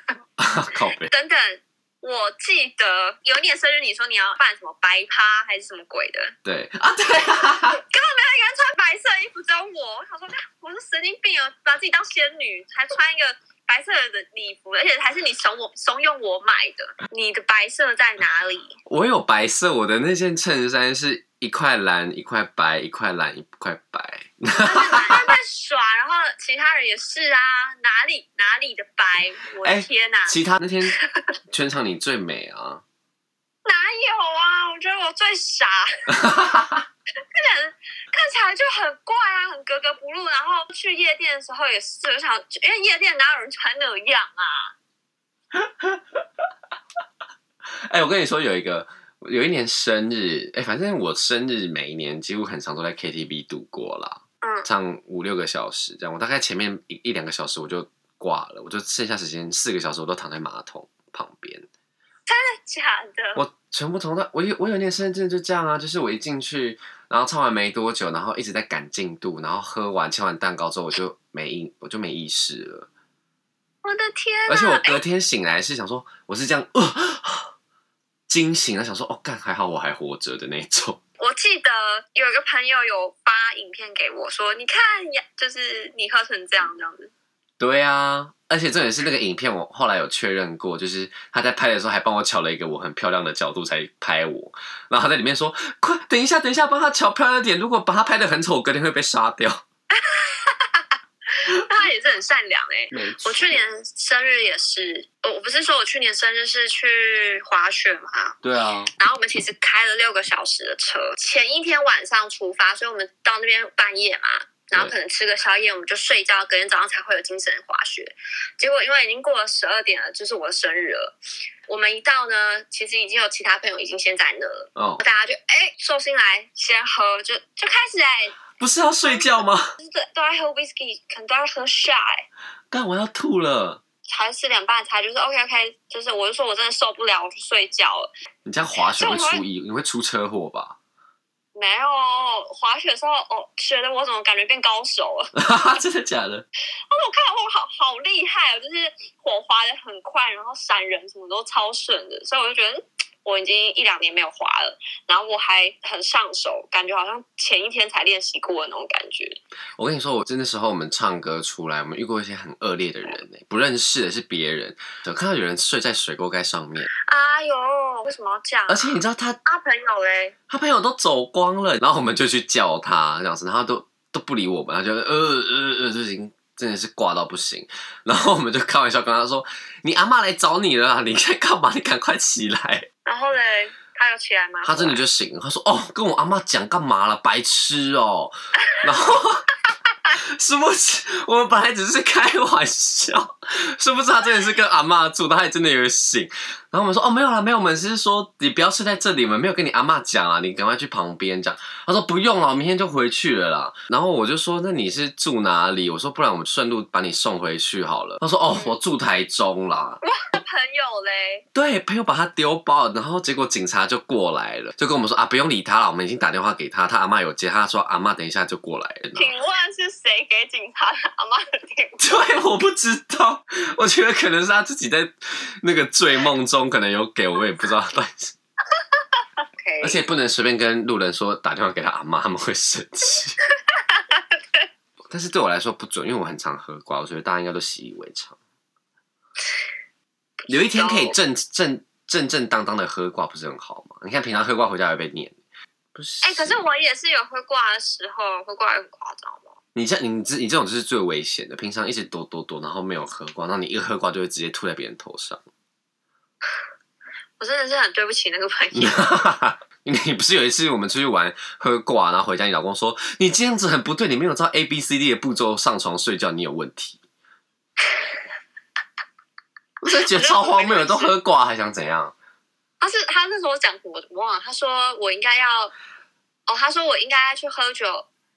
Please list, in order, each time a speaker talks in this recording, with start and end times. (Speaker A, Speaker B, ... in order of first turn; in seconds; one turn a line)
Speaker A: 0.4-1.1
Speaker B: 1.1-6.3
Speaker A: 6.4-7.8
Speaker B: 7.7-18.8
Speaker A: 18.9-25.4
Speaker B: 24.6-30.3
Speaker A: 29.6-30.9
Speaker A: 31.5-32.8
Speaker B: 33.6-36.4
Speaker A: 36.2-36.8
Speaker B: 37.3-44.7
Speaker A: 45.5-46.0
Speaker A: 47.9-61.7
Speaker B: 62.3-63.4
Speaker A: 63.3-72.9
Speaker B: 73.8-75.0
Speaker A: 74.5-77.5
Speaker A: 78.3-81.0
Speaker B: 81.2-87.1
Speaker A: 87.6-99.6
Speaker B: 99.9-100.9
Speaker B: 101.4-108.3
Speaker A: 102.9-103.5
Speaker A: 108.4-108.9
Speaker B: 109.0-121.1
Speaker B: 121.7-128.4
Speaker A: 124.8-125.0
Speaker A: 128.6-129.7
Speaker B: 129.0-132.2
Speaker A: 132.7-133.8
Speaker B: 134.1-138.1
Speaker A: 138.4-140.8
Speaker B: 139.0-139.4
Speaker B: 141.5-145.3
Speaker A: 145.3-146.4
Speaker B: 146.9-159.4
Speaker A: 159.8-166.9
Speaker B: 167.0-170.3
Speaker A: 168.7-169.4
Speaker A: 170.5-182.9
Speaker B: 183.0-185.0
Speaker A: 184.6-189.5
Speaker A: 190.1-210.0
Speaker B: 208.5-208.8
Speaker B: 210.0-211.4
Speaker A: 211.5-219.3
Speaker B: 219.1-222.0
Speaker A: 222.0-228.3
Speaker B: 229.6-230.0
Speaker A: 229.8-233.3
Speaker B: 233.7-234.6
Speaker A: 235.1-238.4
Speaker B: 240.4-241.2
Speaker A: 240.5-245.3
Speaker A: 245.9-246.6
Speaker B: 246.2-249.6
Speaker A: 249.7-255.4
Speaker B: 257.4-259.1
Speaker A: 258.7-267.0
Speaker A: 269.8-272.1
Speaker B: 270.1-271.1
Speaker B: 272.8-275.7
Speaker B: 276.5-278.1